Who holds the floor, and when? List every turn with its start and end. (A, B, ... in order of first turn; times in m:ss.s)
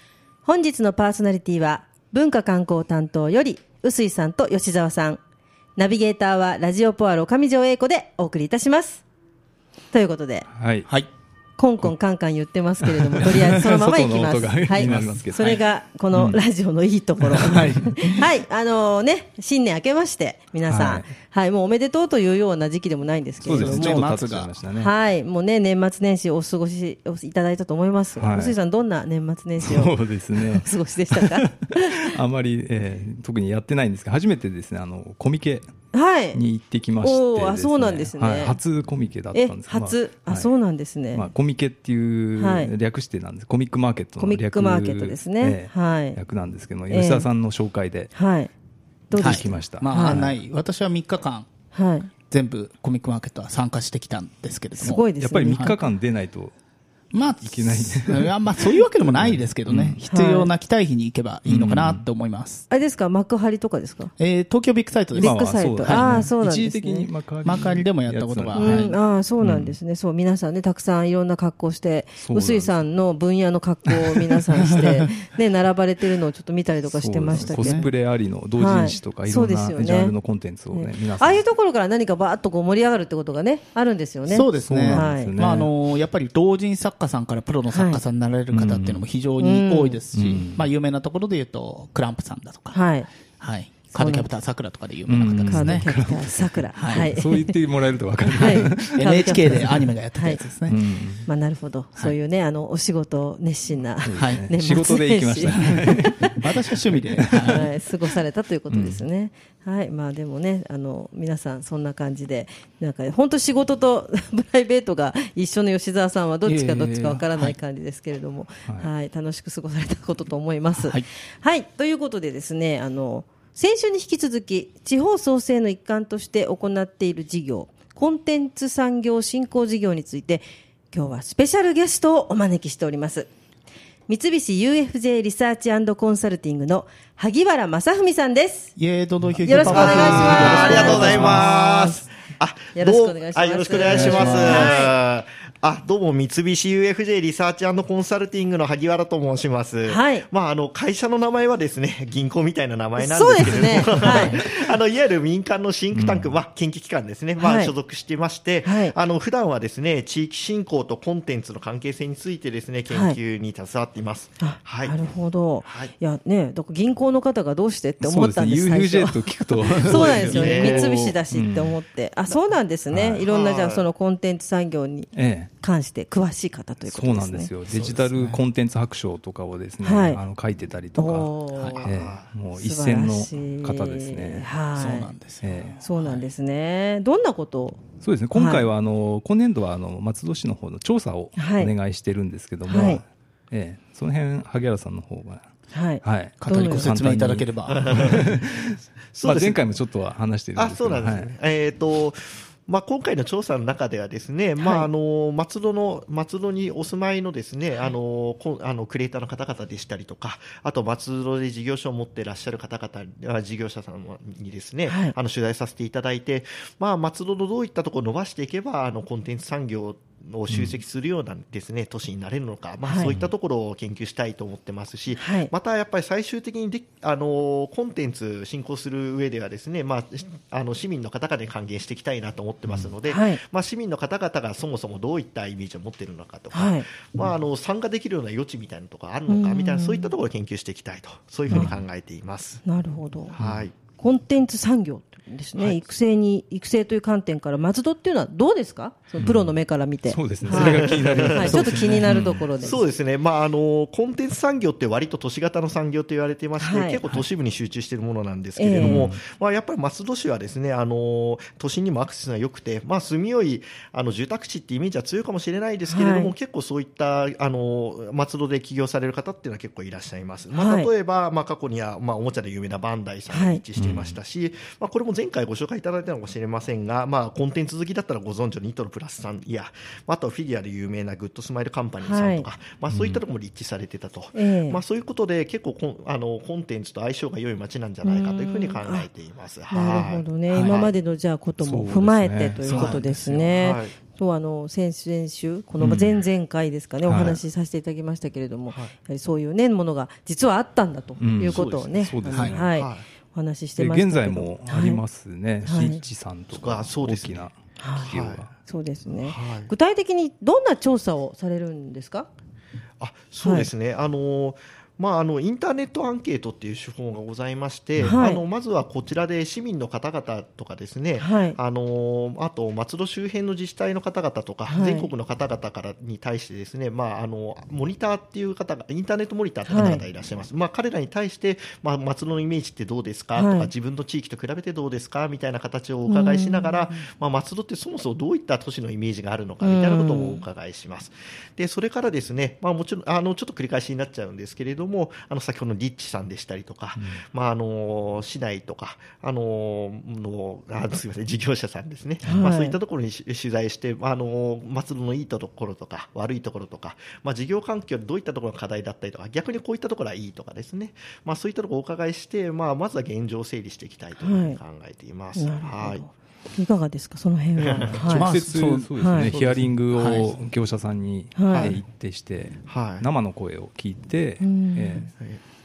0:00.4-0:05.2 A
0:05.8-0:09.0 A
0:09.9-0:10.5 A
0:10.5-0:10.9 B
0:11.6-0:24.1 A
0:12.8-0:15.6 B
0:14.8-0:15.2 C
0:16.1-0:16.4 B
0:17.4-0:18.2 C
0:20.6-0:21.1 B
0:23.4-0:24.9 B
0:23.5-0:24.5 C
0:24.8-0:32.1 A
0:28.2-0:28.6 B
0:29.6-0:35.7 B
0:35.9-0:36.4 A
0:36.3-0:40.5 B
0:37.0-0:38.6 A
0:39.3-0:41.3 A
0:41.1-0:48.1 B
0:42.4-0:42.7 A
0:44.2-0:46.2 A
0:46.9-0:47.3 A
0:48.1-0:48.5 A
0:49.1-0:50.2 A
0:49.1-0:50.4 B
0:49.2-0:51.5 C
0:51.7-0:52.1 A
0:52.3-0:55.8 C
0:54.8-0:55.8 A
0:55.1-0:56.5 B
0:57.1-1:02.6 C
0:57.4-1:00.0 B
1:00.1-1:00.5 A
1:01.4-1:02.0 B
1:02.7-1:04.1 A
1:04.2-1:06.3 C
1:05.1-1:07.1 A
1:05.2-1:09.8 B
1:07.4-1:09.0 C
1:08.5-1:17.9 A
1:12.2-1:12.8 B
1:16.8-1:21.4 B
1:17.3-1:17.8 C
1:18.6-1:20.1 A
1:20.7-1:25.4 A
1:24.3-1:32.8 C
1:24.6-1:25.7 B
1:27.7-1:28.0 A
1:28.5-1:29.0 B
1:29.4-1:30.0 A
1:30.1-1:30.7 B
1:32.7-1:33.1 A
1:33.4-1:35.9 C
1:33.9-1:34.3 A
1:35.0-1:39.8 B
1:35.5-1:37.6 A
1:36.8-1:37.1 C
1:38.3-1:40.4 A
1:38.4-1:40.8 C
1:40.7-1:41.3 B
1:41.2-1:46.4 A
1:44.0-1:46.4 B
1:44.2-1:44.4 C
1:45.6-1:47.6 C
1:46.9-1:47.7 B
1:47.4-2:13.3 A
1:48.7-1:49.0 B
1:56.4-1:57.5 C
2:00.8-2:01.0 C
2:14.1-2:18.7 A
2:18.8-2:21.9 C
2:19.2-2:21.5 B
2:19.4-2:21.8 A
2:19.7-2:45.0 D
2:22.7-2:24.9 A
2:23.9-2:24.7 B
2:23.9-2:24.6 C
2:29.8-2:30.3 A
2:33.0-2:34.4 A
2:35.9-2:36.4 B
2:37.4-2:37.7 A
2:38.6-2:38.9 A
2:42.9-2:43.2 A
2:44.4-2:57.5 A
2:45.6-2:45.9 D
2:48.0-2:51.8 B
2:49.7-2:51.0 D
2:52.9-2:53.2 B
2:53.2-2:53.8 D
2:55.1-2:55.5 B
2:56.8-3:01.3 B
2:57.7-2:58.4 C
2:59.8-3:00.2 A
3:01.0-3:01.9 A
3:01.5-3:01.8 C
3:01.8-3:02.3 D
3:01.8-3:04.5 B
3:02.5-3:05.1 A
3:04.7-3:06.3 C
3:05.4-3:05.8 B
3:05.8-3:07.8 A
3:08.0-3:15.4 B
3:08.3-3:08.7 A
3:11.4-3:11.7 A
3:12.6-3:13.0 A
3:15.7-3:16.9 A
3:16.0-3:21.3 B
3:16.4-3:18.2 C
3:17.7-3:18.3 D
3:19.1-3:19.7 D
3:20.5-4:02.6 D
3:24.6-3:24.9 A
3:34.9-3:35.1 A
3:40.5-3:40.8 B
3:42.8-3:43.1 A
3:43.0-3:43.3 B
3:45.2-3:45.5 A
3:52.7-3:52.9 B
3:53.0-3:53.4 A
3:56.5-3:56.9 A
3:59.3-4:00.1 A
4:01.5-4:01.8 B
4:01.5-4:01.8 A
4:02.6-4:03.3 A
4:03.3-4:03.7 D
4:03.4-4:03.6 B
4:04.0-4:12.8 A
4:05.6-4:05.9 D
4:09.2-4:12.5 B
4:10.5-4:11.5 D
4:11.4-4:12.1 C
4:12.6-4:50.9 D
4:16.6-4:17.0 A
4:18.6-4:19.1 A
4:18.8-4:19.2 B
4:25.8-4:26.3 A
4:30.5-4:30.9 A
4:33.3-4:33.6 A
4:33.8-4:34.2 B
4:42.0-4:42.5 A
4:42.9-4:43.2 B
4:44.3-4:44.8 A
4:48.0-4:49.1 A
4:49.7-5:05.0 A
4:50.5-4:50.8 C
4:51.6-4:52.6 B
4:52.6-4:53.3 C
4:52.7-4:54.0 D
4:55.8-4:56.2 B
4:57.0-4:57.4 B
5:01.2-5:02.8 B
5:02.3-5:02.6 C
5:02.6-5:03.0 D
5:03.8-5:08.5 B
5:05.6-5:06.0 A
5:06.5-5:08.5 D
5:07.8-5:08.1 A
5:08.6-5:12.3 A
5:09.1-5:09.7 D
5:13.0-6:06.0 D
5:13.4-5:13.7 A
5:18.0-5:18.4 A
5:21.2-5:21.6 A
5:24.7-5:25.1 A
5:29.6-5:30.0 A
5:33.3-5:33.7 A
5:36.1-5:36.9 A
5:39.6-5:40.4 A
5:46.9-5:47.2 B
5:52.2-5:52.8 A
6:04.2-6:04.6 A
6:05.3-6:08.3 A
6:07.6-6:08.0 D
6:07.9-6:10.3 C
6:08.1-6:15.1 B
6:09.0-6:09.3 A
6:11.4-6:11.8 A
6:11.5-6:11.8 D
6:12.7-6:13.1 D
6:14.4-6:15.1 A